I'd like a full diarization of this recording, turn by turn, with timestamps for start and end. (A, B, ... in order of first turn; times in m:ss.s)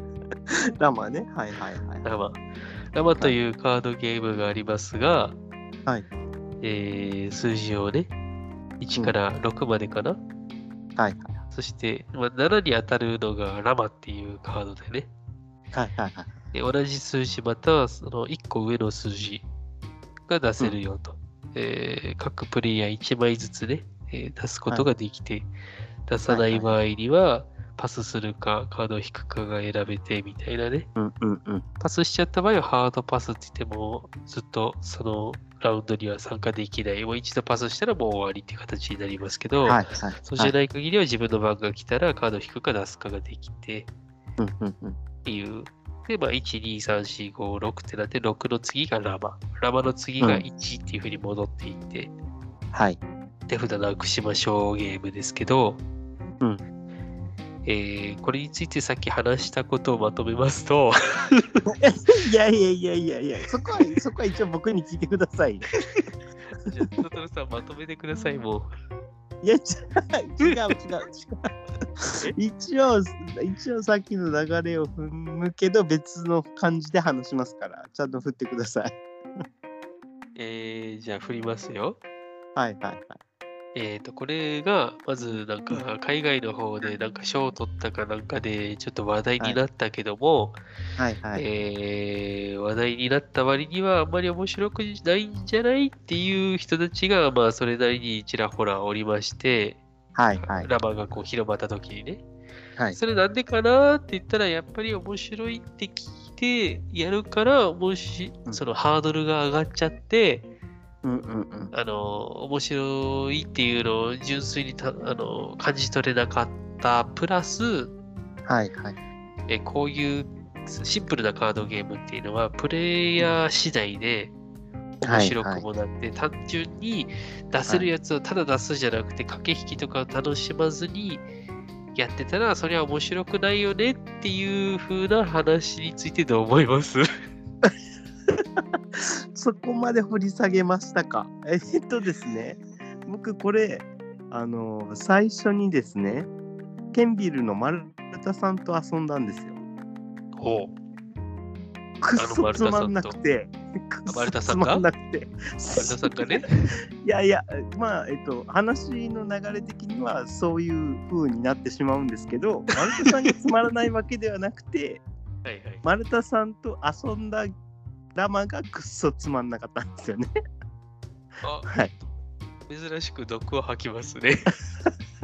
0:00.8-0:02.1 A
0:02.0-0:02.4 B
0:02.9-0:05.4 B
0:06.6-0:08.1 B
0:08.8-0:10.2 B
0:11.0-0:11.4 A
0:11.5-0:15.1 B
0:15.7-0:16.4 A
0:16.5-0:19.4 B
0:20.3-0:25.5 B
0:26.1-0:30.9 B
0:26.3-0:26.8 A
0:31.0-0:31.6 A
0:31.8-0:43.9 B
0:39.7-0:40.5 A
0:44.4-0:45.0 A
0:45.2-0:52.1 B
0:52.7-0:53.0 A
0:53.5-0:55.8 B
0:57.6-1:01.4 B
1:01.8-1:05.7 A
1:06.6-1:08.7 B
1:09.4-1:11.5 A
1:12.4-1:19.0 A
1:20.4-1:22.0 B
1:22.6-1:23.2 A
1:23.8-1:30.6 B
1:31.0-1:31.4 A
1:31.3-1:39.8 B
1:40.1-1:40.7 A
1:40.4-1:42.2 B
1:42.9-1:50.5 B
1:51.0-1:51.7 A
1:51.7-1:57.9 B
1:58.4-1:59.0 A
1:59.5-2:04.3 B
2:05.0-2:11.2 B
2:05.0-2:05.6 A
2:11.9-2:17.0 B
2:19.3-2:26.3 A
2:26.9-2:29.6 A
2:30.4-2:30.7 B
2:32.0-2:36.4 A
2:32.2-2:33.2 B
2:34.1-2:34.8 B
2:35.7-2:36.5 B
2:37.0-2:45.0 A
2:45.4-2:45.8 B
2:45.8-2:47.5 A
2:48.1-2:50.3 A
2:51.4-2:51.7 B
2:51.6-2:51.9 A
2:52.7-2:54.5 B